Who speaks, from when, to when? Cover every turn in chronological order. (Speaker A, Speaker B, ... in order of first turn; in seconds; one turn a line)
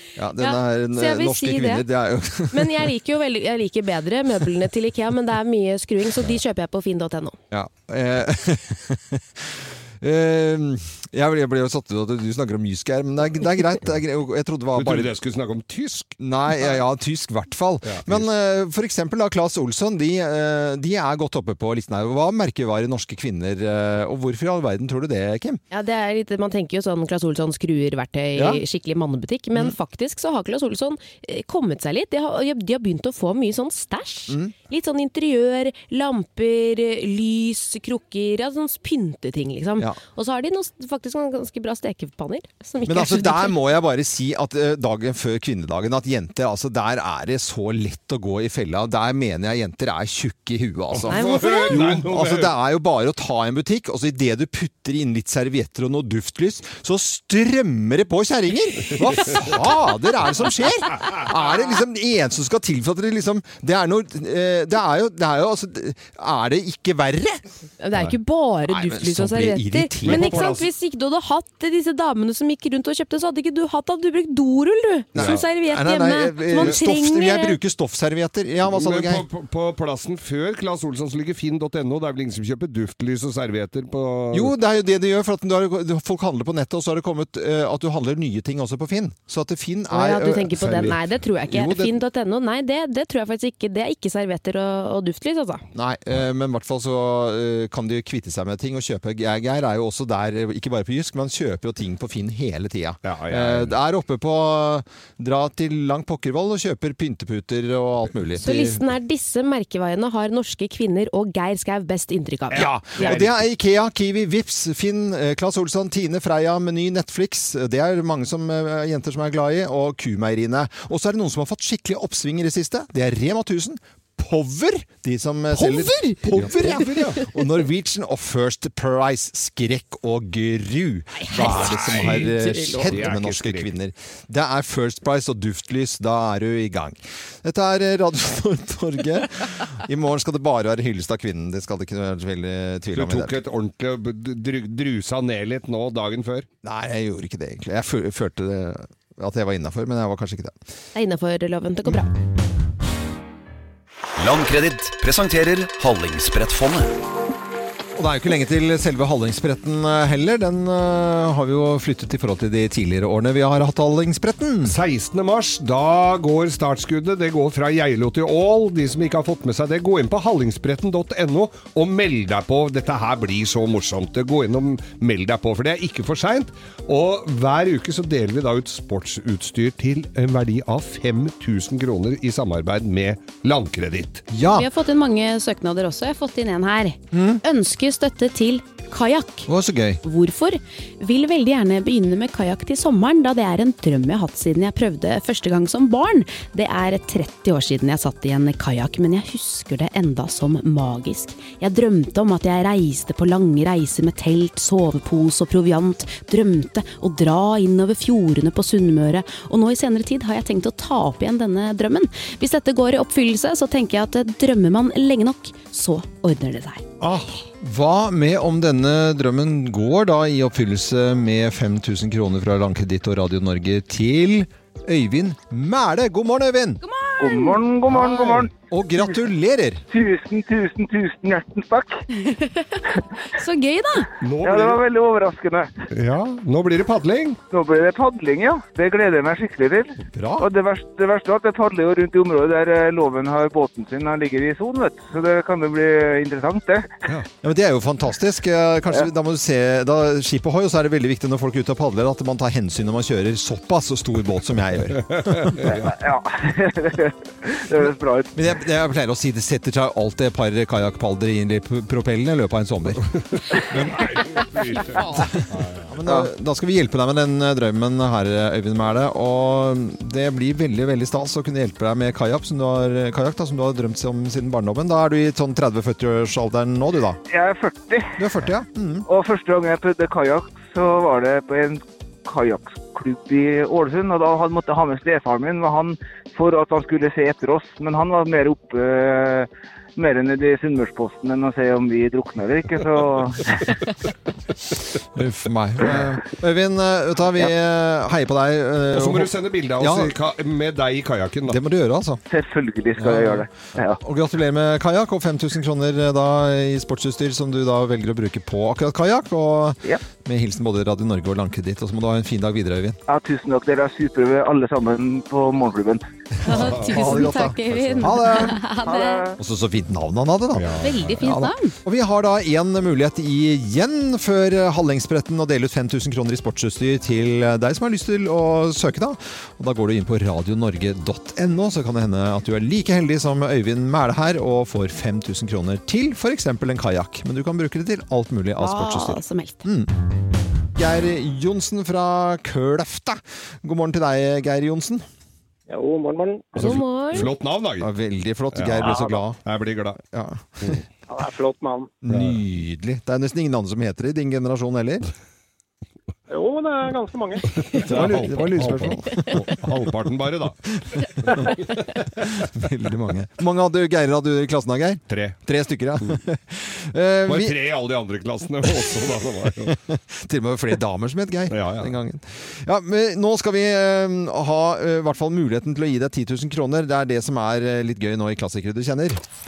Speaker A: 0.2-2.9
Speaker B: 0.4-1.9
Speaker B: 2.5-7.4
Speaker A: 7.5-15.1
Speaker C: 14.8-16.2
Speaker A: 16.2-25.6
Speaker C: 17.8-18.3
Speaker B: 25.7-43.6
Speaker A: 28.4-28.6
Speaker A: 42.9-67.4
Speaker C: 50.9-52.5
Speaker B: 51.1-51.8
Speaker B: 67.8-77.6
Speaker A: 68.7-70.5
Speaker C: 70.0-70.7
Speaker A: 75.2-79.3
Speaker C: 78.7-84.5
Speaker A: 84.3-91.0
Speaker B: 89.9-95.7
Speaker C: 90.6-91.0
Speaker A: 91.5-91.9
Speaker A: 95.7-108.9
Speaker C: 103.0-103.8
Speaker B: 108.4-113.1
Speaker C: 112.5-113.4
Speaker A: 112.5-143.4
Speaker C: 125.6-127.2
Speaker B: 131.1-133.0
Speaker C: 131.4-132.3
Speaker C: 132.9-133.7
Speaker C: 142.9-146.5
Speaker A: 146.6-150.6
Speaker B: 150.9-152.1
Speaker D: 154.2-156.9
Speaker A: 158.0-164.8
Speaker C: 164.7-184.3
Speaker A: 184.3-184.7
Speaker B: 184.5-189.5
Speaker A: 187.1-187.4
Speaker A: 189.5-190.0
Speaker B: 190.0-216.8
Speaker C: 217.0-217.4
Speaker A: 217.6-226.8
Speaker B: 226.8-227.6
Speaker E: 227.2-228.5
Speaker C: 227.9-228.5
Speaker A: 228.7-229.8
Speaker E: 229.9-232.0
Speaker B: 232.1-234.1
Speaker C: 234.2-234.8
Speaker E: 234.4-235.7
Speaker C: 235.9-237.4
Speaker E: 237.5-246.9
Speaker A: 240.1-240.5
Speaker A: 247.4-255.6
Speaker C: 255.0-255.9
Speaker E: 255.9-258.3
Speaker A: 258.4-263.1
Speaker C: 263.3-265.9
Speaker A: 265.9-277.2
Speaker E: 277.3-278.2
Speaker A: 278.2-279.1
Speaker E: 279.1-293.8
Speaker A: 295.1-300.1
Speaker C: 298.9-301.6
Speaker A: 301.5-302.2
Speaker E: 302.3-304.0
Speaker A: 303.0-313.0
Speaker E: 313.1-316.1
Speaker B: 316.4-319.3
Speaker A: 316.5-318.6
Speaker C: 316.5-318.1
Speaker E: 318.8-319.4
Speaker A: 319.4-339.9
Speaker C: 320.5-321.0
Speaker B: 320.8-321.8
Speaker B: 338.6-339.7
Speaker A: 340.8-345.1
Speaker F: 345.7-346.6
Speaker C: 346.6-347.9
Speaker B: 346.6-347.3
Speaker A: 347.8-349.4
Speaker C: 348.5-350.0
Speaker A: 350.1-350.8
Speaker F: 351.1-351.9
Speaker A: 352.1-355.1
Speaker C: 352.1-352.4
Speaker F: 356.3-357.4
Speaker C: 357.7-360.6
Speaker A: 357.9-359.5
Speaker C: 361.3-362.2
Speaker A: 362.3-367.6
Speaker C: 365.1-365.4
Speaker C: 367.3-369.7
Speaker A: 368.7-368.9
Speaker A: 369.6-379.2
Speaker C: 371.5-371.9